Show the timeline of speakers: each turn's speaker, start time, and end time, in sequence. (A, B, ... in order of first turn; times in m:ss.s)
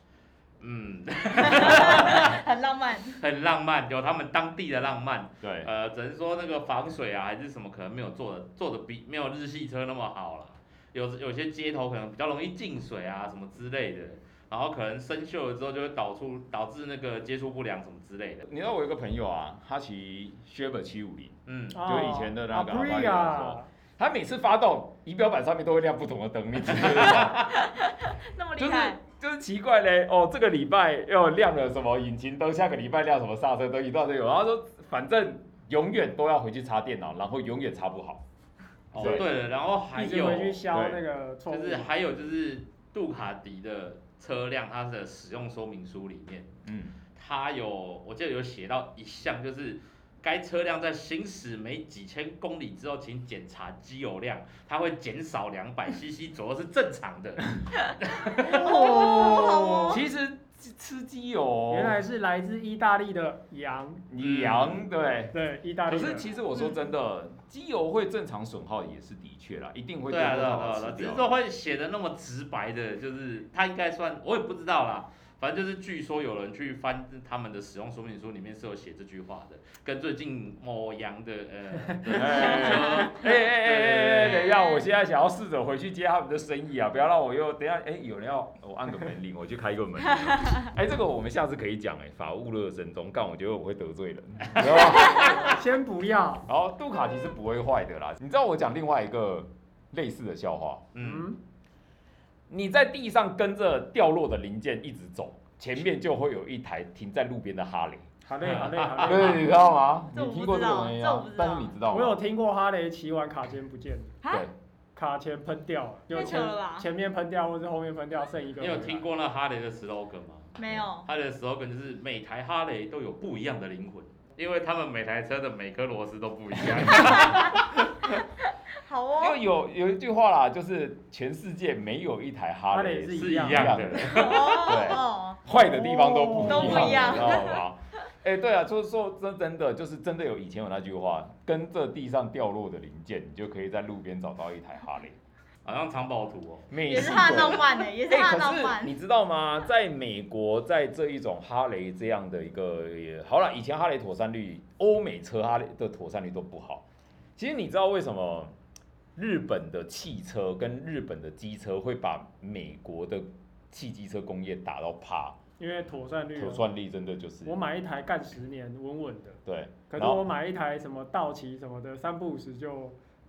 0:00.6-0:02.4 A
0:01.5-0:03.2 B
0:03.1-0:18.5 A
0:05.4-0:05.7 C
0:18.4-0:27.5 C
0:21.5-0:21.8 A
0:21.7-0:23.7 D
0:27.2-0:29.0 B
0:28.6-0:38.2 C
0:38.9-0:39.3 C
0:38.9-0:40.6 A
0:39.9-0:41.9 D
0:40.7-0:41.0 C
0:41.5-0:46.5 A
0:46.6-0:47.0 C
0:47.1-0:59.4 A
0:58.4-1:00.0 B
0:58.7-1:02.0 C
0:58.9-0:59.5 D
1:01.7-1:04.0 D
1:04.1-1:05.3 C
1:04.2-1:04.8 A
1:05.3-1:06.3 D
1:05.9-1:11.3 C
1:10.1-1:24.5 A
1:22.1-1:35.6 C
1:22.4-1:22.8 B
1:24.2-1:24.8 B
1:35.0-1:36.5 D
1:36.5-1:40.9 C
1:40.9-1:41.3 A
1:41.0-1:41.4 D
1:42.5-1:48.1 C
1:48.2-1:49.4 D
1:48.4-1:49.4 A
1:49.0-1:52.2 C
1:50.1-1:51.7 B
1:51.9-1:54.1 D
1:54.2-1:54.5 B
1:55.0-1:59.1 D
1:56.1-1:56.9 B
1:58.6-2:07.7 A
2:00.6-2:01.1 B
2:06.7-2:07.8 C
2:08.8-2:09.4 B
2:09.2-2:25.2 C
2:12.7-2:13.9 D
2:13.2-2:14.9 A
2:14.0-2:15.4 B
2:15.5-2:17.0 D
2:16.3-2:17.6 B
2:25.6-2:26.7 A
2:26.7-2:36.8 C
2:26.8-2:28.9 B
2:37.4-2:38.5 C
2:39.2-2:45.4 C
2:45.6-2:46.6 D
2:46.4-2:47.6 C
2:47.4-2:53.0 D
2:49.5-2:50.2 C